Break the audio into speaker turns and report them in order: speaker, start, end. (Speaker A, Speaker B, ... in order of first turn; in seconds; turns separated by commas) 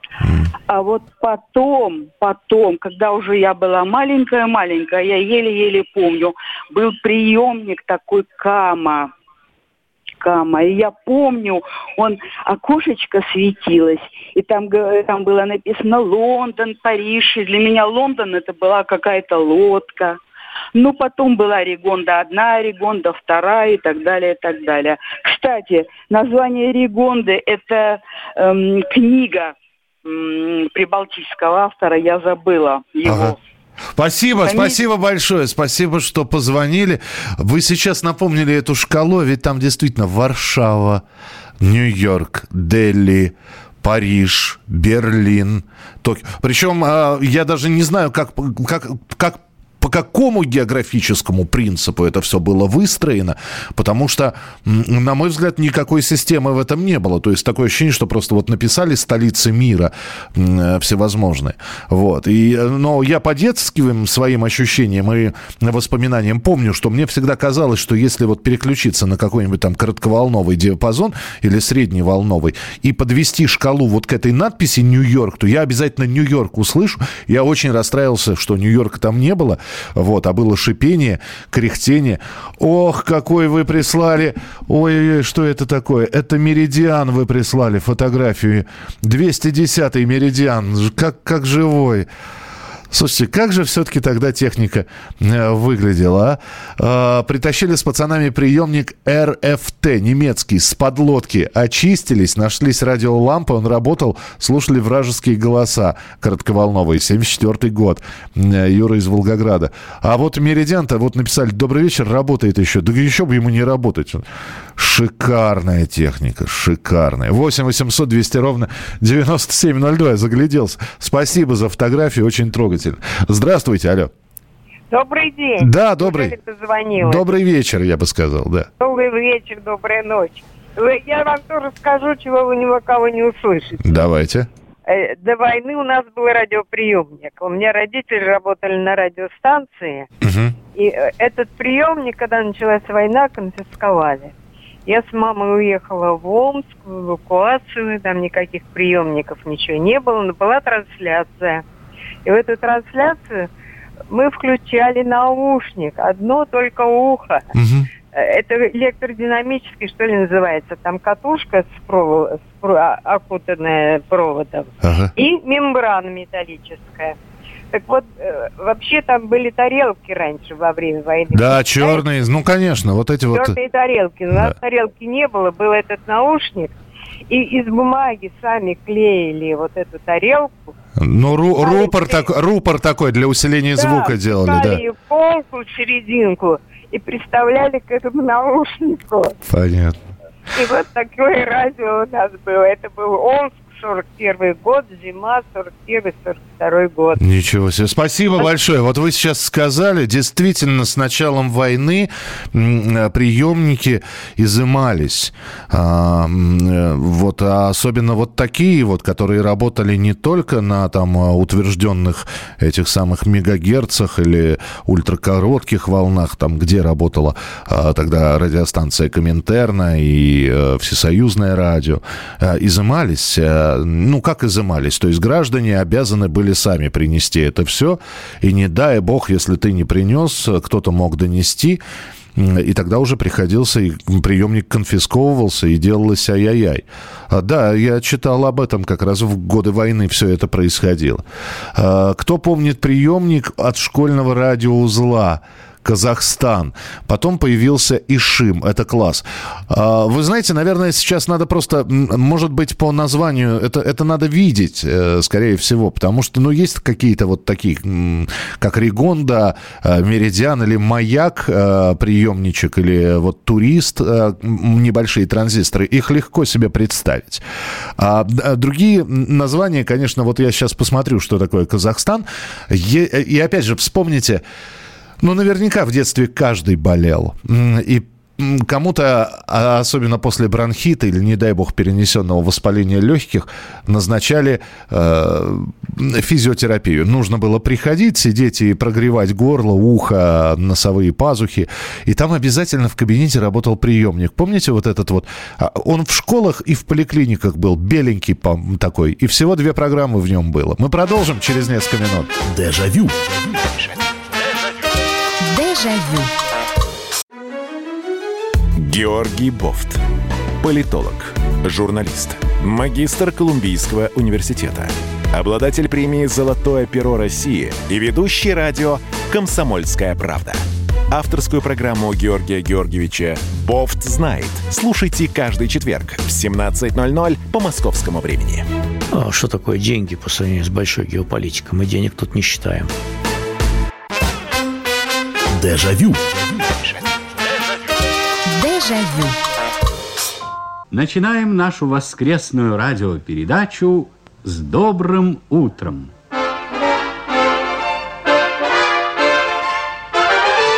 Speaker A: 0.7-9.1, Speaker A: 10.2-20.2, Speaker A: 20.8-29.5, Speaker A: 30.1-33.4, Speaker B: 33.1-33.4, Speaker B: 34.0-41.0, Speaker A: 34.4-34.8, Speaker B: 41.6-92.1, Speaker B: 92.9-114.2, Speaker B: 114.8-124.1, Speaker C: 124.9-127.4, Speaker B: 125.6-126.3, Speaker B: 127.0-128.7, Speaker C: 128.8-134.0, Speaker B: 133.8-134.5, Speaker C: 134.9-140.1, Speaker B: 140.2-140.6, Speaker C: 140.8-144.3, Speaker C: 144.9-151.6, Speaker C: 152.2-153.5, Speaker C: 154.1-157.4, Speaker B: 157.5-157.9, Speaker C: 158.1-167.2, Speaker B: 164.8-165.1, Speaker C: 167.7-172.1, Speaker B: 171.3-173.6, Speaker C: 173.3-176.8, Speaker C: 177.3-180.7, Speaker B: 181.0-184.8, Speaker C: 181.6-182.3, Speaker C: 183.8-189.4, Speaker B: 189.4-190.0, Speaker C: 190.5-197.2, Speaker B: 197.2-231.8, Speaker B: 232.3-241.2, Speaker B: 241.8-267.4, Speaker B: 268.0-274.4, Speaker B: 275.2-302.4, Speaker D: 302.4-304.0, Speaker E: 305.4-306.3, Speaker F: 308.8-310.0, Speaker F: 310.6-328.7, Speaker G: 329.1-332.9, Speaker D: 335.5-337.0, Speaker E: 338.5-339.4, Speaker E: 340.9-346.1